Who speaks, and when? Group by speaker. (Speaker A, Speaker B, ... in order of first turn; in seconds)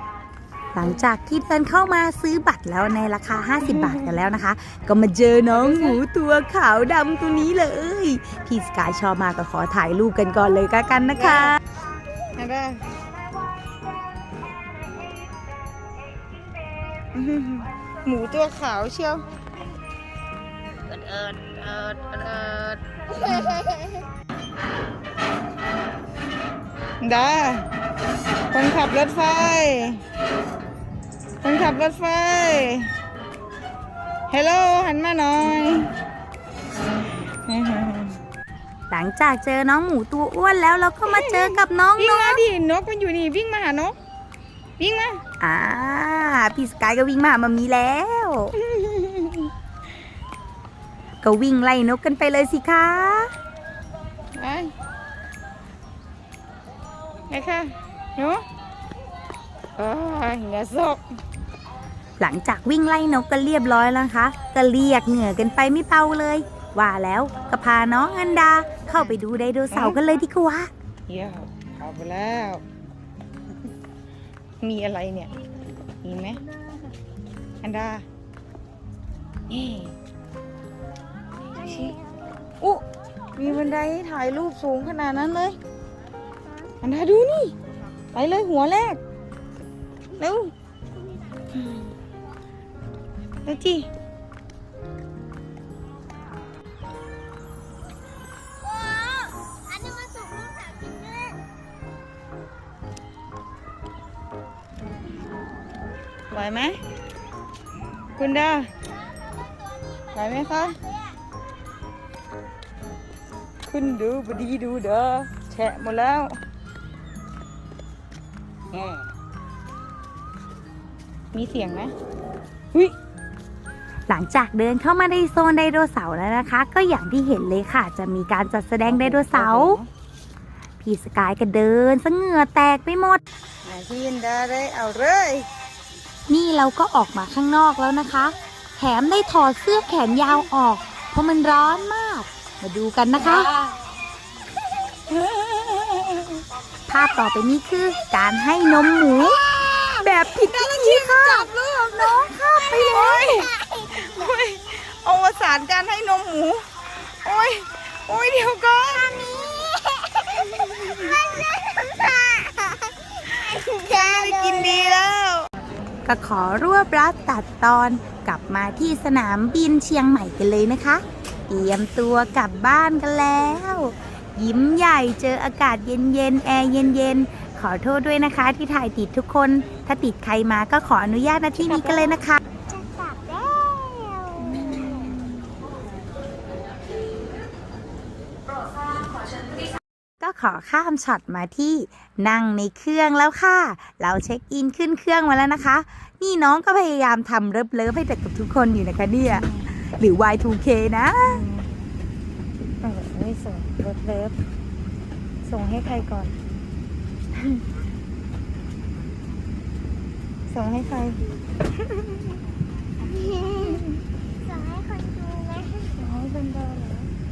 Speaker A: 0.7-11.6, 38.9-42.4, 45.4-48.5, 51.2-53.3, 62.2-70.7, 124.1-129.8, 130.8-133.2, 136.3-143.5, 146.9-149.4, 150.0-153.2, 166.0-182.4, 190.2-201.4
Speaker B: 3.6-4.2, 5.5-6.0, 11.1-11.6, 12.3-12.8, 17.1-19.2, 21.1-22.7, 27.0-27.7, 28.5-30.0, 31.4-32.9, 34.3-35.9, 37.1-38.2, 41.0-44.0, 44.8-45.2, 48.6-49.5, 54.3-54.7, 57.3-58.4, 59.8-61.0, 69.7-70.0, 71.1-72.6, 74.6-75.3, 76.0-76.4, 77.6-78.0, 79.5-79.9, 81.6-82.0, 83.3-85.6, 86.8-87.5, 88.1-89.0, 90.2-90.5, 91.6-91.8, 93.4-93.9, 106.3-106.8, 108.2-108.7, 110.1-110.8, 113.7-116.4, 118.7-119.0, 121.3-121.9, 128.8-129.9, 133.6-135.5, 143.2-143.7, 145.1-146.4, 149.5-161.2, 163.2-165.5, 184.5-185.2, 199.3-199.7, 201.3-201.7, 202.8-204.4, 205.4-206.3, 207.3-207.6, 210.5-211.2, 211.8-212.3, 213.6-213.9, 215.9-217.1
Speaker C: 98.8-101.3, 152.7-154.0, 160.6-164.9, 182.7-185.2, 213.1-213.8, 214.5-215.9